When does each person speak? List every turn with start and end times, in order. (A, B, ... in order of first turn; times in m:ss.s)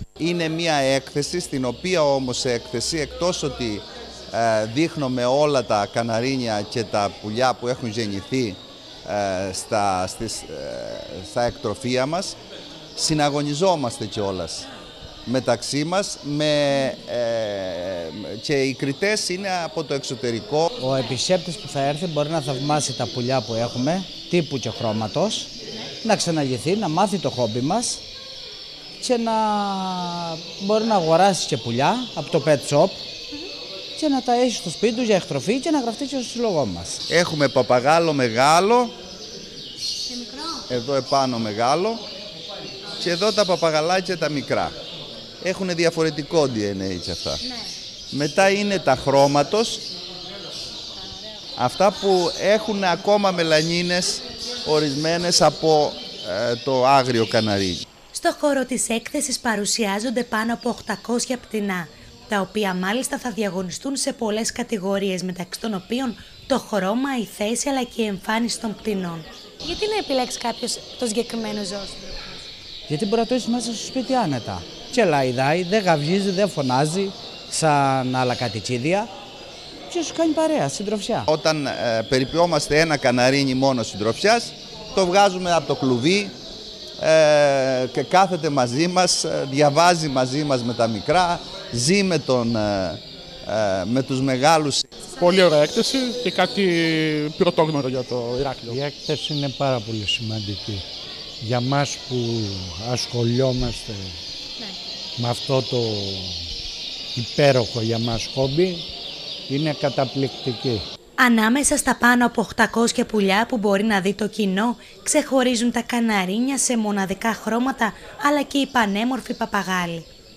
0:00.2-0:12.4 A
0:13.0-0:14.7 A
0:15.3-0:20.7 A
0:20.8-0:25.5 B
0:26.0-0:28.0 B
0:29.0-0:33.0 B
0:34.0-0:37.0 B
0:37.1-0:39.0 A
0:40.1-0:40.6 C
0:40.7-0:42.0 A
0:43.0-0:44.7 A
0:45.4-0:47.4 A
0:48.1-0:49.8 A
0:51.6-0:57.8 A
0:58.1-1:12.4 C
1:12.9-1:19.1 B
1:19.9-1:21.3 B
1:21.3-1:26.3 A
1:27.0-1:34.9 A
1:35.2-1:38.8 D
1:38.7-1:40.8 E
1:41.4-1:44.2 E
1:45.2-1:46.4 E
1:47.2-1:48.9 E
1:49.5-1:50.8 E
1:51.2-2:00.1 C